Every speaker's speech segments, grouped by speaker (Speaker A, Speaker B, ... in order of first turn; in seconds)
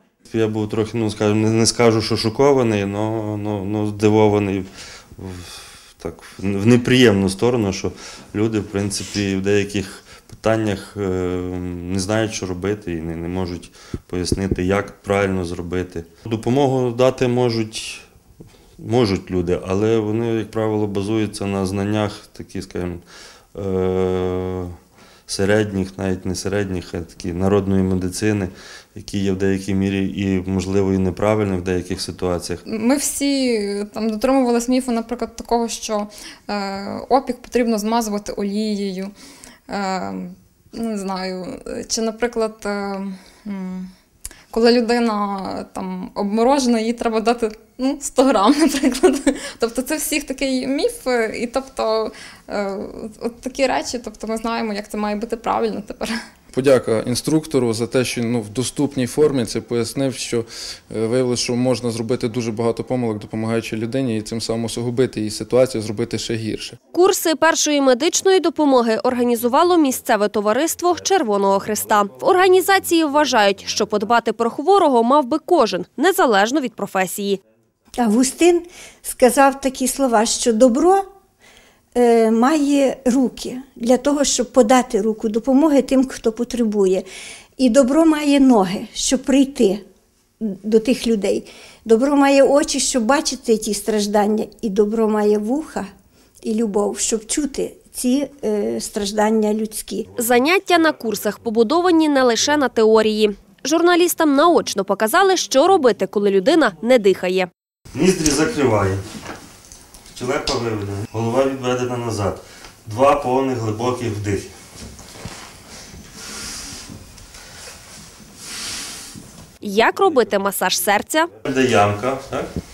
Speaker A: 0.3-18.0, 18.8-23.0, 23.5-24.7, 25.3-32.6, 107.9-109.0, 110.1-114.5, 121.4-122.5
Speaker B: 32.7-39.1, 39.7-43.9, 44.5-56.1
Speaker C: 56.5-66.8
Speaker D: 66.9-77.4, 100.2-107.5, 119.6-121.3
Speaker E: 78.0-81.0, 81.9-87.0, 87.6-89.8, 90.4-95.9, 96.4-100.1